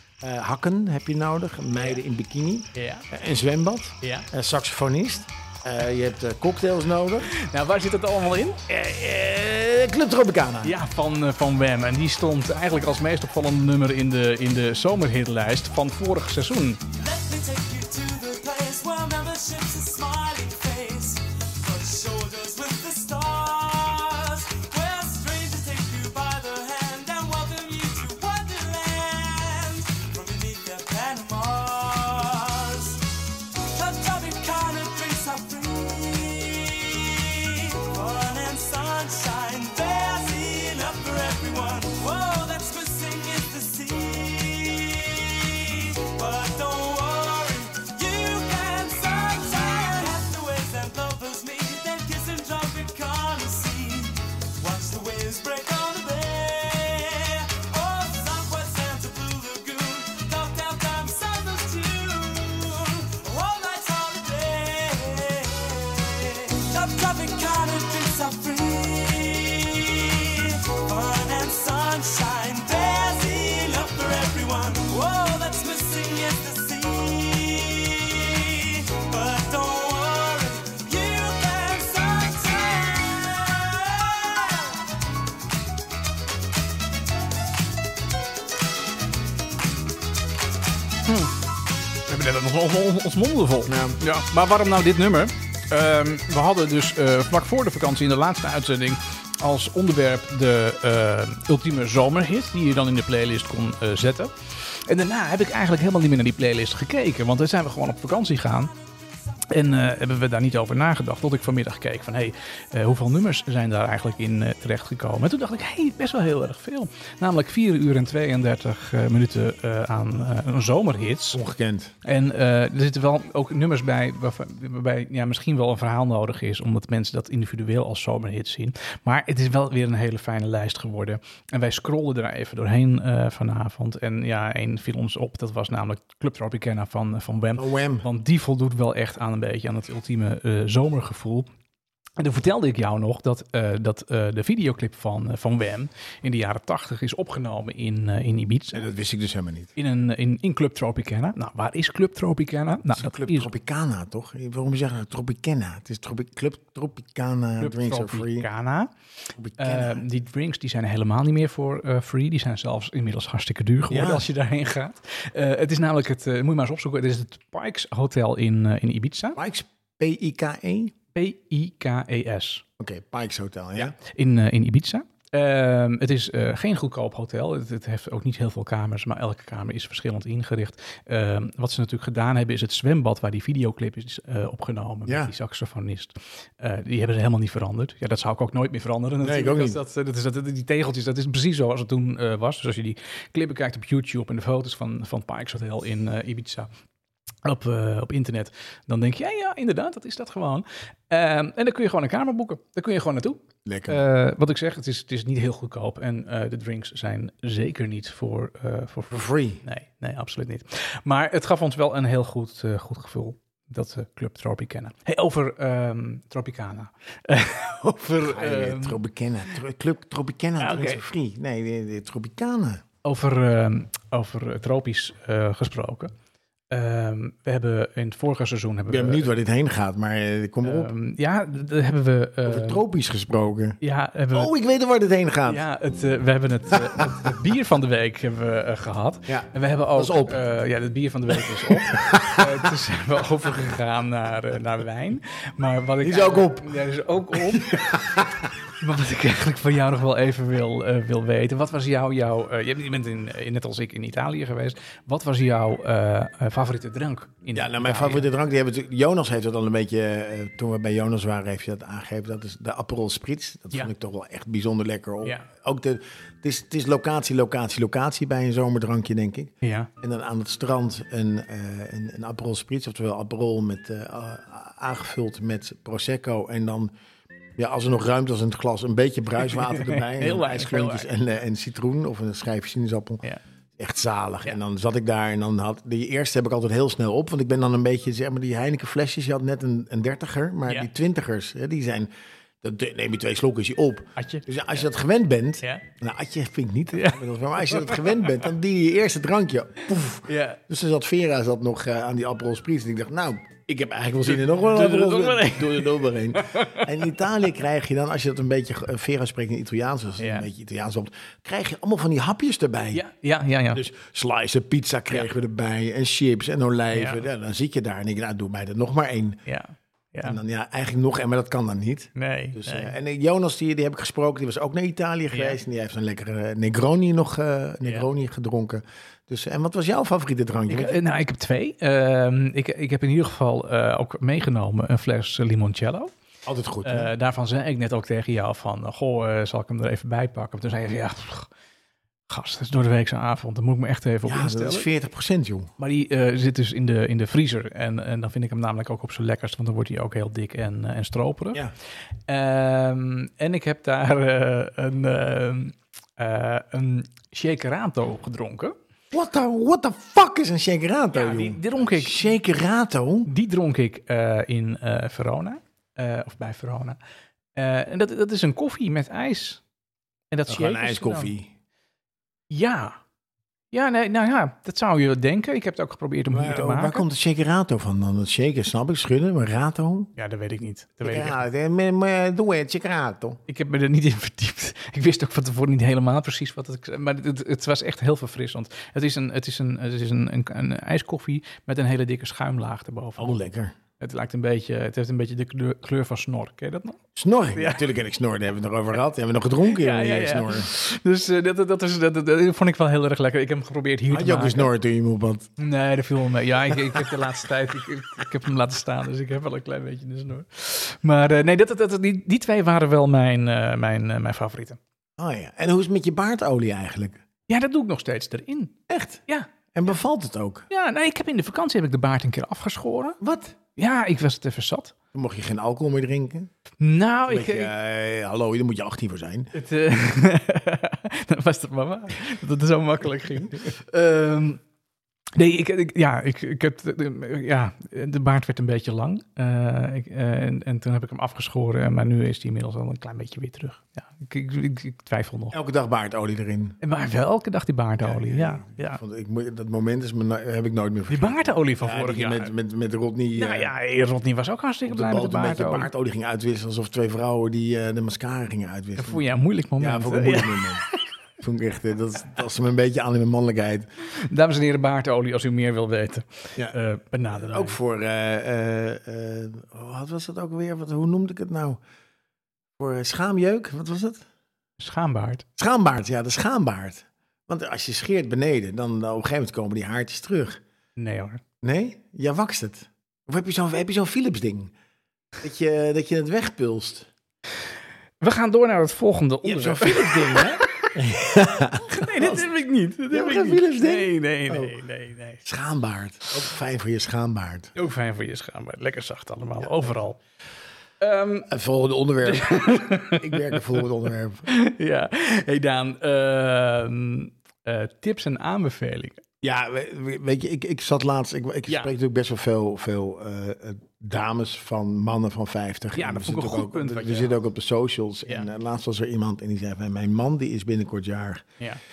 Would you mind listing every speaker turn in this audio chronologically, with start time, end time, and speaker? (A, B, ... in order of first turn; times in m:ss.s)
0:00.2-0:07.3 A
0:01.7-0:02.0 B
0:02.7-0:03.0 B
0:04.0-0:04.3 B
0:07.3-0:09.0 B
0:09.0-0:10.7 A
0:10.6-0:16.9 B
0:16.9-1:24.8 C
1:31.0-1:31.3 B
1:32.0-1:48.7 B
1:33.7-1:34.0 A
1:49.5-2:01.4 B
2:01.3-2:01.9 A
2:02.0-2:21.5 B
2:17.6-2:18.1 A
2:22.2-2:28.8 B
2:28.7-2:29.7 A
2:29.8-2:33.5 B
2:32.9-2:38.5 A
2:37.6-2:38.9 B
2:39.3-2:40.0 A
2:39.6-2:49.4 B
2:43.9-2:44.3 A
2:49.4-2:50.9 A
2:51.1-2:52.6 B
2:52.8-2:53.9 A
2:53.8-3:16.7 B
3:05.1-3:05.3 A
3:09.2-3:09.8 A
3:17.4-3:39.0 B
3:23.6-3:24.0 A
3:29.1-3:29.6 A
3:38.2-3:42.8 A
3:40.6-3:41.0 B
3:43.0-3:46.1 B
3:46.7-3:49.3 B
3:48.9-3:50.9 A
3:50.6-3:52.8 B
3:52.4-3:53.8 A
3:53.8-3:54.5 B
3:54.3-3:55.6 A
3:55.4-4:08.0 B
3:59.3-4:00.4 A
4:01.6-4:02.4 A
4:06.0-4:06.7 A
4:07.5-4:08.4 A
4:08.8-4:18.3 B
4:17.5-4:36.9 A
4:29.6-4:29.9 B
4:37.6-4:43.2 A
4:39.4-4:41.1 B
4:43.8-4:52.1 A
4:52.6-5:13.0 A
4:54.2-4:54.8 B
4:56.9-4:58.4 B
5:00.3-5:00.6 B
5:04.2-5:07.3 B
5:10.2-5:10.5 B
5:12.9-5:13.8 B
5:13.7-5:19.4 A
5:16.9-5:17.2 B
5:19.4-5:20.4 B
5:20.2-5:31.0 A
5:22.2-5:22.9 B
5:25.3-5:25.6 B
5:30.7-5:36.1 B
5:36.4-5:37.1 A
5:36.8-5:41.5 B
5:42.3-5:44.9 B
5:44.2-5:45.7 A
5:45.8-5:51.6 B
5:52.3-5:58.8 B
5:59.1-6:03.3 A
6:01.1-6:02.3 B
6:03.2-6:07.0 B
6:07.5-6:09.6 B
6:10.3-6:11.3 B
6:10.5-6:11.5 A
6:12.5-6:13.0 B
6:13.7-6:17.0 B
6:16.3-6:20.1 A
6:20.2-6:21.4 B
6:21.0-6:23.4 A
6:23.5-6:33.4 B
6:33.2-6:33.7 A
6:34.0-6:37.0 B
6:37.1-6:40.7 A
6:37.5-6:37.8 B
6:39.7-6:44.7 B
6:44.1-6:45.5 A
6:45.6-6:54.8 B
6:55.2-6:57.2 A
6:57.5-6:58.8 B
6:58.9-6:59.2 A
6:59.7-7:00.7 A
7:00.7-7:03.2 B
7:03.2-7:03.6 A
7:03.7-7:04.9 B
7:05.1-7:06.5 A
7:06.8-7:07.7 B
7:07.3-7:09.5 A
7:09.5-7:14.6 B
7:15.3-7:25.5 B
7:25.5-7:26.8 A
7:26.8-7:29.0 B
7:28.0-7:33.7 A
7:31.1-7:32.5 B
7:33.4-7:35.9 B
7:34.9-7:39.2 A
7:39.0-7:41.0 B
7:39.8-7:40.8 A
7:41.4-7:43.9 A
7:44.0-7:47.8 B
7:47.3-7:51.8 A
7:52.8-7:54.2 A
7:54.8-7:55.4 B
7:55.6-8:00.6 A
8:01.0-8:01.4 B
8:01.6-8:04.7 A
8:05.4-8:07.1 A
8:08.2-8:11.2 B
8:09.4-8:12.4 A
8:11.9-8:15.4 B
8:13.1-8:14.8 A
8:15.4-8:17.7 A
8:17.7-8:20.2 B
8:21.0-8:21.5 B
8:21.5-8:24.5 A
8:22.2-8:23.8 B
8:24.5-8:29.2 B
8:29.4-8:41.5 A
8:35.9-8:37.3 B